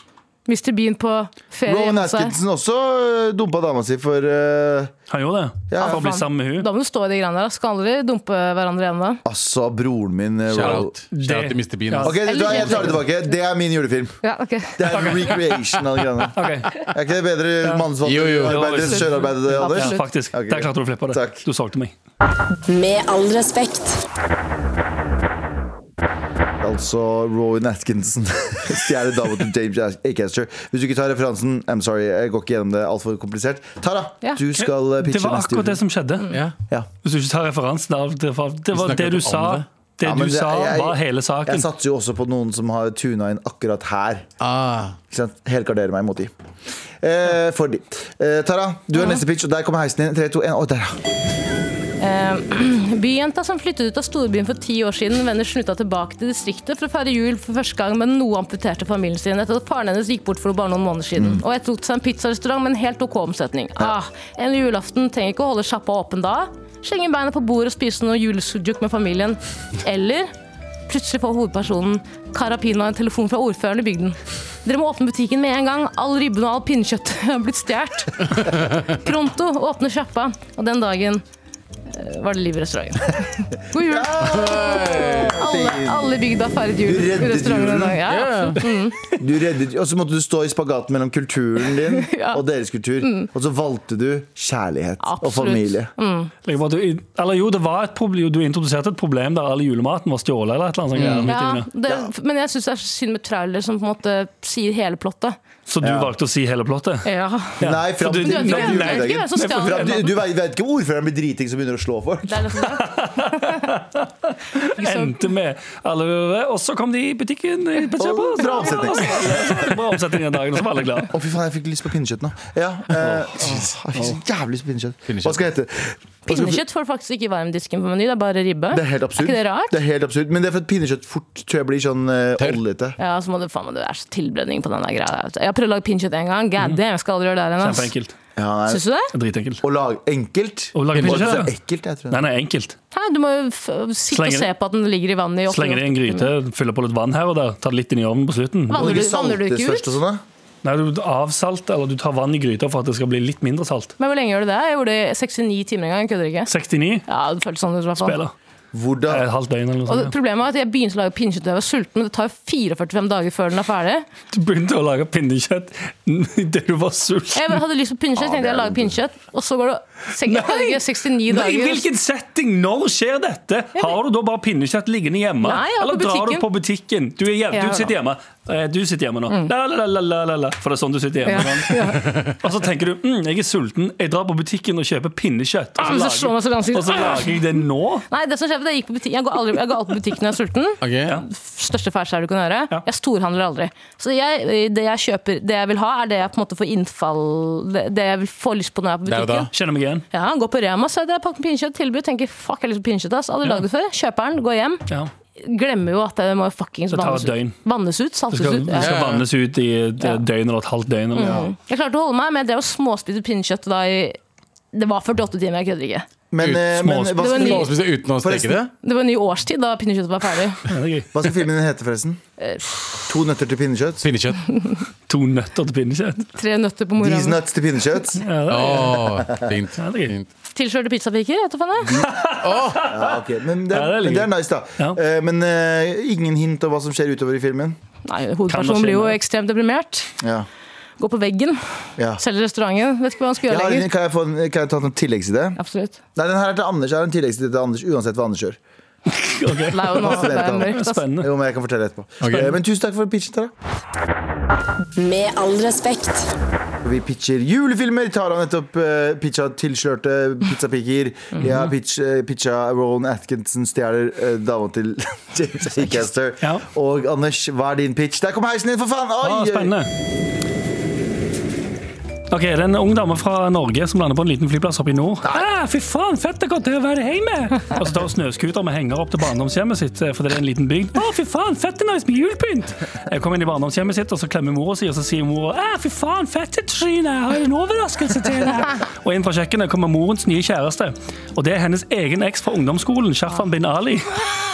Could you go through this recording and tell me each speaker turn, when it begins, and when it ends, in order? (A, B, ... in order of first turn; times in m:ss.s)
0:00.5-0:02.3 A
0:01.6-0:04.9 B
0:05.1-0:06.7 C
0:05.7-0:06.0 B
0:05.8-0:09.2 A
0:09.2-0:10.9 B
0:10.5-0:12.5 D
0:11.1-0:12.2 C
0:12.0-0:14.2 B
0:12.2-0:13.0 A
0:14.2-0:15.0 A
0:14.8-0:21.4 B
0:14.9-0:15.4 C
0:16.4-0:16.9 C
0:17.6-0:17.9 C
0:18.0-0:18.7 D
0:18.4-0:21.9 C
0:18.9-0:20.1 A
0:22.6-0:24.0 E
0:26.6-0:35.8 B
0:34.6-0:36.3 C
0:37.0-0:41.6 C
0:38.7-0:39.6 D
0:40.0-0:44.3 B
0:44.4-0:45.0 D
0:45.1-0:46.3 B
0:47.0-0:51.0 B
0:52.0-1:10.3 A
1:01.2-1:01.4 B
1:10.9-1:21.2 A
1:21.9-1:29.0 A
1:23.7-1:26.1 B
1:24.4-1:25.4 D
1:26.8-1:28.0 B
1:28.1-1:28.6 D
1:29.1-1:35.9 B
1:31.8-1:32.4 A
1:33.0-1:33.3 A
1:35.0-1:36.3 A
1:36.4-1:41.7 C
1:41.0-1:41.3 D
1:41.0-1:41.3 B
1:41.3-1:45.4 A
1:45.7-1:47.1 C
1:45.8-1:46.1 B
1:47.0-1:47.6 A
1:47.6-1:50.1 C
1:47.6-1:52.8 B
1:48.2-1:50.0 A
1:52.3-1:53.6 A
1:52.8-2:01.1 C
1:54.7-1:55.2 A
1:58.0-1:59.7 B
2:01.1-2:06.6 B
2:05.1-2:05.4 D
2:06.3-2:09.8 A
2:08.7-2:13.0 B
2:13.0-2:17.9 A
2:17.6-2:18.1 C
2:18.4-2:18.8 B
2:18.7-2:19.1 A
2:19.1-2:19.6 C
2:19.6-2:22.2 B
2:20.8-2:21.5 C
2:21.0-2:21.4 D
2:22.1-2:22.8 C
2:22.9-2:26.3 A
2:24.1-2:24.5 C
2:25.5-2:29.0 C
2:28.7-2:30.0 A
2:28.7-2:30.2 B
2:30.6-2:33.9 C
2:34.0-2:36.5 A
2:36.5-2:37.0 C
2:37.1-2:38.2 A
2:38.0-2:38.3 C
2:38.7-2:39.2 B
2:39.1-2:40.1 C
2:39.9-2:44.1 A
2:44.3-2:47.6 C
2:47.3-2:51.8 A
2:48.2-2:49.0 B
2:50.2-3:08.1 C
2:55.4-2:56.4 A
2:57.5-2:57.9 A
3:01.3-3:02.1 A
3:05.8-3:07.4 A
3:08.1-3:19.5 A
3:10.8-3:11.2 D
3:19.1-3:19.5 D
3:19.5-3:20.0 C
3:20.1-3:24.8 A
3:25.4-3:28.9 A
3:26.9-3:27.6 C
3:28.3-3:31.4 C
3:28.8-3:29.2 D
3:31.1-3:34.2 A
3:31.2-3:31.5 B
3:34.7-3:36.1 A
3:36.3-3:38.6 B
3:36.4-3:38.7 D
3:36.8-3:37.1 C
3:37.2-3:37.7 A
3:38.8-3:40.6 A
3:40.7-3:41.1 C
3:41.1-3:42.2 B
3:42.4-3:43.1 A
3:43.1-3:44.1 B
3:44.0-3:44.4 D
3:44.5-3:44.8 A
3:45.1-3:46.3 C
3:46.3-3:47.4 A
3:47.0-3:48.3 B
3:48.2-3:49.2 C
3:48.5-3:50.3 D
3:49.8-3:50.1 C
3:50.5-3:52.0 A
3:52.0-3:53.0 C
3:52.4-3:52.9 D
3:52.8-3:57.8 B
3:53.7-3:55.0 C
3:58.1-4:00.1 A
3:58.5-3:59.2 C
4:00.2-4:00.5 B
4:01.0-4:03.9 A
4:03.5-4:05.6 B
4:05.6-4:06.0 A
4:06.1-4:08.6 B
4:09.1-4:11.3 C
4:09.7-4:11.0 A
4:09.8-4:13.5 B
4:12.2-4:12.5 D
4:15.0-4:16.3 E
4:16.8-4:29.8 B
4:21.4-4:21.7 C
4:29.2-4:29.9 C
4:32.3-4:54.2 C